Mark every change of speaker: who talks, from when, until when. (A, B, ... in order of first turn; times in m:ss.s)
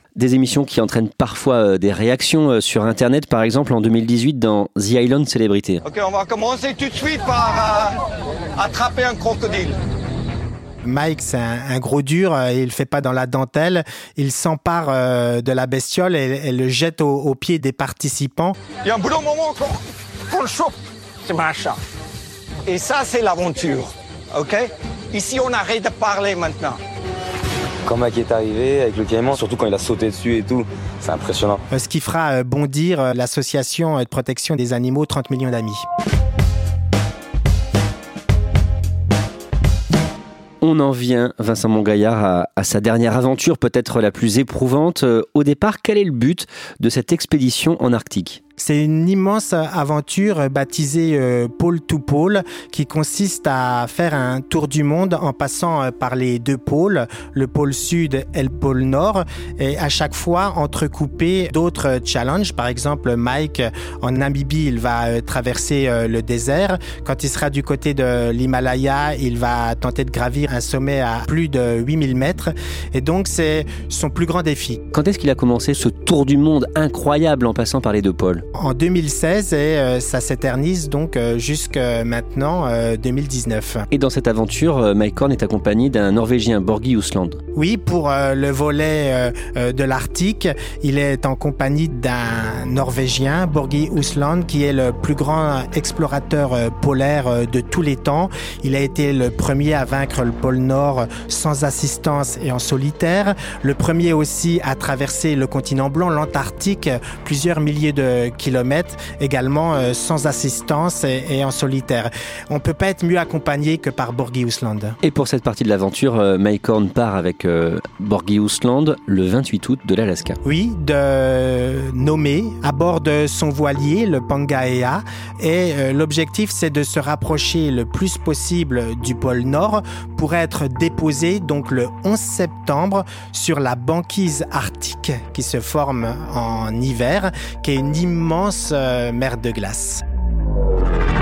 0:00.2-0:05.8 A
0:05.8-0:08.0 B
0:08.6-0:09.7 B
0:10.8-0:18.6 C
0:18.8-0:21.8 B
0:22.6-0:26.8 B
0:27.8-0:31.6 D
0:31.7-0:35.8 C
0:40.6-0:48.4 A
0:48.6-1:14.8 C
1:14.9-1:18.4 A
1:18.6-1:23.9 C
1:23.9-1:27.4 A
1:27.5-1:55.0 C
1:55.0-2:00.4 A
2:00.4-2:20.0 C